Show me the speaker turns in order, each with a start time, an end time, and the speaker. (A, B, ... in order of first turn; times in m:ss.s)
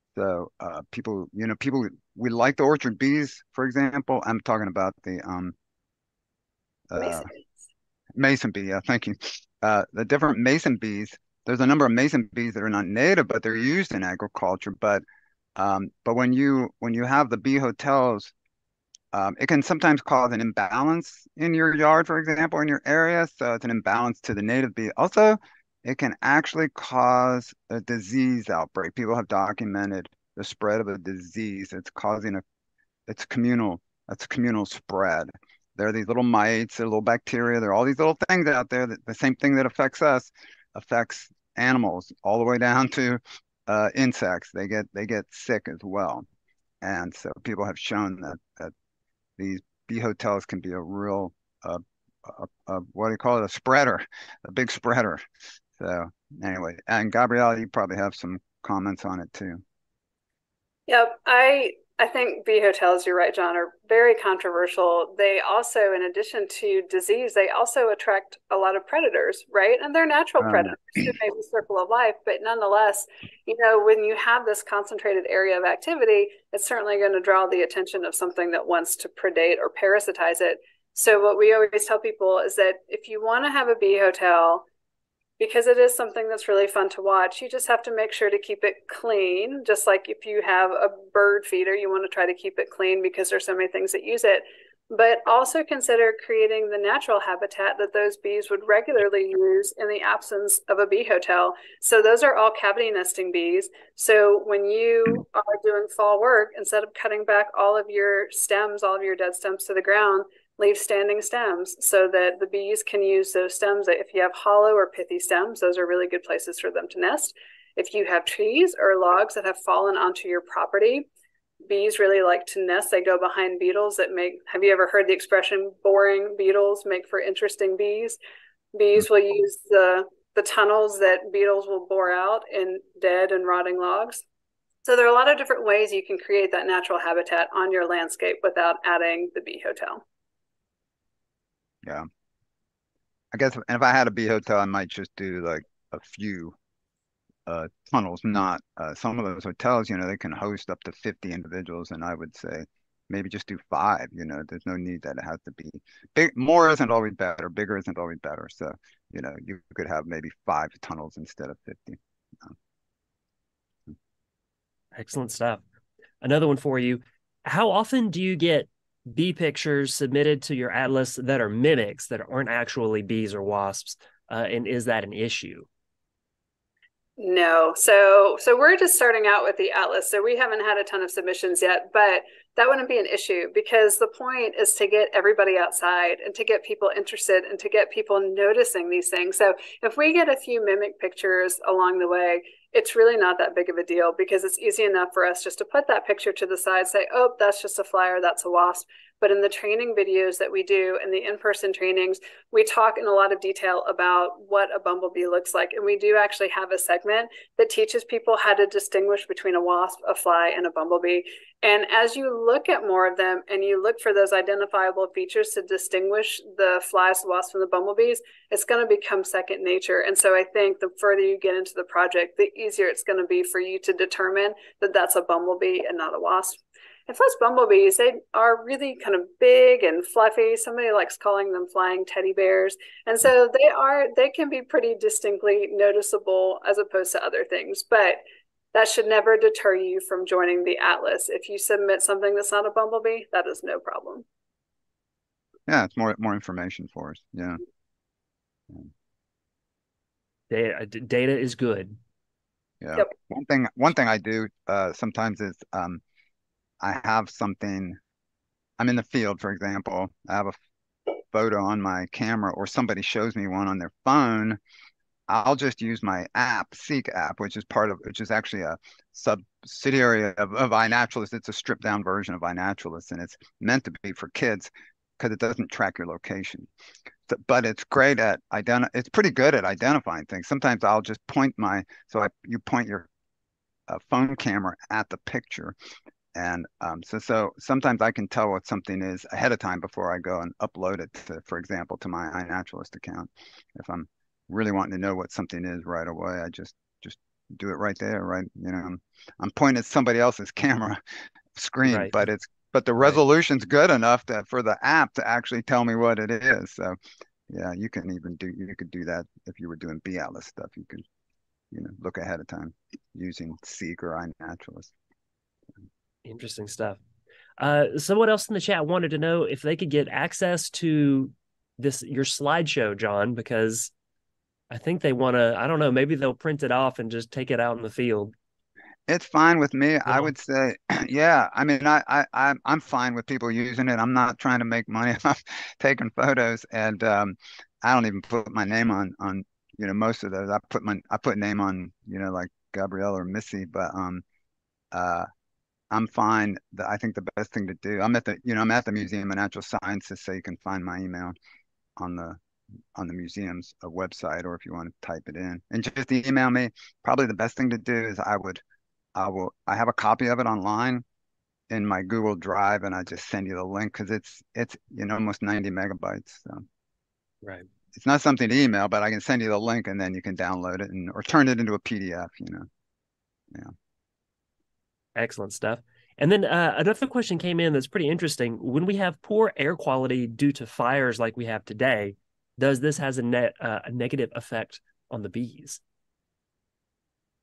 0:00.1-0:05.5 A
0:06.9-0:07.3 A
0:08.2-0:15.0 A
0:15.6-0:18.3 A
0:19.1-0:32.4 A
0:33.1-0:46.2 A
0:46.8-0:48.7 A
0:49.4-0:55.2 A
0:55.8-0:59.6 A
1:00.9-1:24.6 B
1:10.4-1:11.1 A
1:25.4-2:01.1 B
2:01.6-2:08.2 B
2:08.7-2:14.2 B
2:14.8-2:20.0 B
2:23.3-2:26.6 A
2:27.4-2:42.5 A
2:44.9-2:45.6 C
2:46.2-2:55.7 C
2:57.2-3:58.2 B
3:58.7-4:04.2 B
4:05.7-4:07.6 A
4:10.5-4:12.0 C
4:12.8-4:16.0 A
4:16.8-4:18.0 A
4:18.8-4:20.5 A
4:21.3-4:24.6 A
4:25.3-4:36.7 A
4:37.3-4:43.1 A
4:43.9-4:45.7 A
4:46.3-5:01.0 A
5:01.5-5:07.0 A
5:01.8-5:02.1 C
5:07.5-5:11.0 A
5:11.7-5:14.9 A
5:16.2-5:17.0 C
5:17.6-5:23.9 C
5:24.7-5:28.3 C
5:29.1-5:44.2 A
5:44.9-5:45.3 A
5:45.9-5:51.3 A
5:52.0-5:52.4 A
5:52.9-5:58.6 A
5:59.1-6:01.0 A
6:01.7-6:06.6 A
6:07.9-6:12.7 A
6:15.1-6:25.8 C